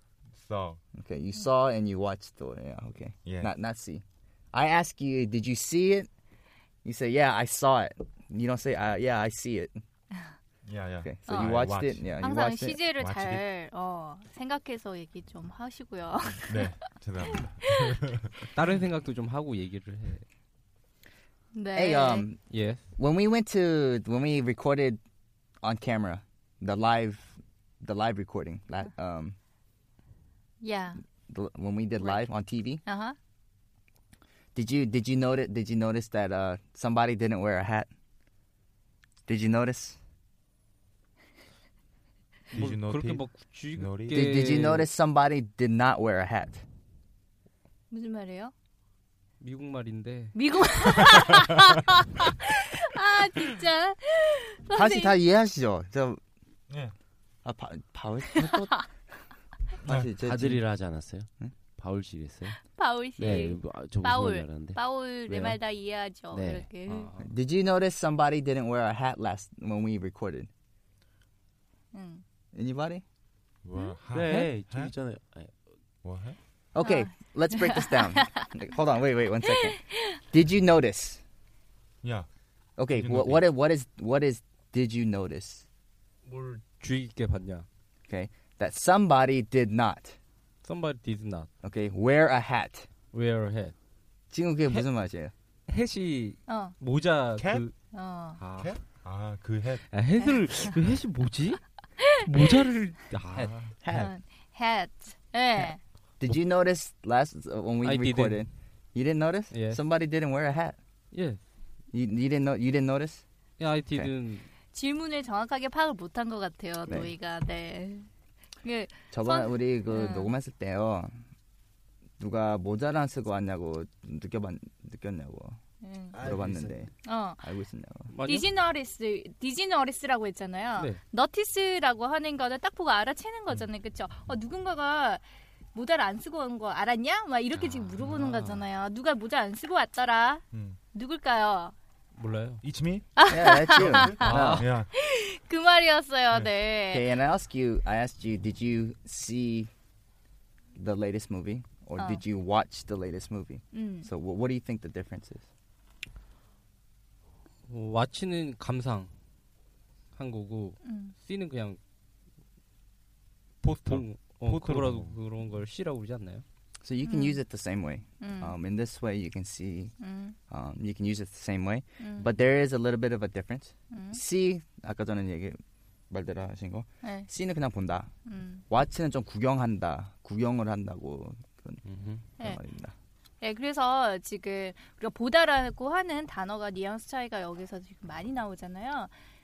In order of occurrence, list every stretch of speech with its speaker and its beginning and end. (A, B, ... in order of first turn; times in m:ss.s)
0:00.3-0:00.8 A
0:00.9-0:06.1 B
0:03.2-0:03.5 A
0:06.8-0:09.8 B
0:10.6-0:12.0 A
0:11.0-0:12.8 B
0:11.3-0:11.5 C
0:12.2-0:16.7 C
0:12.9-0:13.4 A
0:16.5-0:18.3 A
0:17.5-0:17.9 C
0:18.5-0:20.2 D
0:21.5-0:22.3 C
0:21.7-0:22.4 B
0:22.5-0:22.8 D
0:22.9-0:25.0 B
0:25.6-0:29.4 B
0:30.6-0:31.0 C
0:31.3-0:32.8 B
0:32.0-0:32.3 C
0:32.8-0:33.2 C
0:34.5-0:37.9 B
0:39.2-0:40.0 B
0:42.5-0:44.3 A
0:42.5-0:44.9 D
0:44.1-0:46.6 B
0:47.9-0:48.5 C
0:49.4-0:50.3 D
0:50.3-0:55.2 C
0:54.7-0:56.2 B
0:57.4-0:58.9 B
0:58.4-0:58.8 C
0:59.8-1:00.6 B
0:59.8-1:00.1 A
1:00.2-1:02.6 E
1:02.7-1:07.1 C
1:03.2-1:05.6 E
1:06.3-1:06.6 E
1:06.9-1:07.3 D
1:07.2-1:10.5 B
1:11.9-1:12.2 C
1:12.5-1:13.0 B
1:13.6-1:14.9 A
1:14.1-1:15.5 E
1:14.2-1:14.5 D
1:16.0-1:16.4 A
1:16.7-1:21.2 B
1:16.8-1:18.5 C
1:19.8-1:20.1 C
1:22.8-1:25.6 B
1:22.9-1:23.4 A
1:26.2-1:27.6 D
1:28.1-1:30.2 B
1:30.6-1:31.5 D
1:31.6-1:32.9 B
1:33.1-1:33.7 D
1:34.3-1:35.3 B
1:35.7-1:37.7 D
1:36.5-1:36.8 C
1:37.4-1:37.6 A
1:37.9-1:38.4 C
1:38.4-1:39.9 A
1:38.4-1:38.7 D
1:39.9-1:41.6 D
1:42.2-1:43.6 D
1:43.4-1:43.7 A
1:43.8-1:44.1 B
1:43.9-1:45.8 C
1:46.2-1:50.8 B
1:47.8-1:48.4 D
1:49.5-1:49.8 D
1:51.1-1:51.4 D
1:51.9-1:53.2 B
1:53.6-1:54.4 D
1:54.7-1:58.1 C
1:56.8-1:57.1 B
1:58.6-2:00.3 C
1:59.1-2:01.2 B
2:02.2-2:05.6 B
2:05.8-2:06.2 C
2:06.1-2:06.9 B
2:06.2-2:06.7 A
2:07.0-2:07.4 C
2:07.4-2:08.1 B
2:08.1-2:08.5 D
2:08.2-2:15.2 C
2:15.7-2:21.7 C
2:18.0-2:18.6 D
2:22.2-2:22.6 D
2:22.6-2:24.9 A
2:23.2-2:24.2 C
2:23.2-2:24.3 B
2:24.2-2:24.8 D
2:24.9-2:27.1 C
2:26.9-2:29.7 B
2:30.8-2:35.4 B
2:33.7-2:34.1 C
2:37.7-2:39.1 D
2:40.1-2:41.8 D
2:40.8-2:41.1 C
2:43.6-2:45.2 A
2:43.7-2:46.4 D
2:46.8-2:49.9 B
2:47.0-2:47.4 C
2:48.2-2:48.5 C
2:50.0-2:50.4 C
2:50.5-2:58.1 B
2:52.0-2:52.3 C
2:53.9-2:54.2 C
2:57.0-2:57.3 C
2:58.2-2:58.6 C
2:58.7-3:01.8 B
3:01.8-3:02.2 D
3:02.4-3:02.9 B
3:03.4-3:09.1 C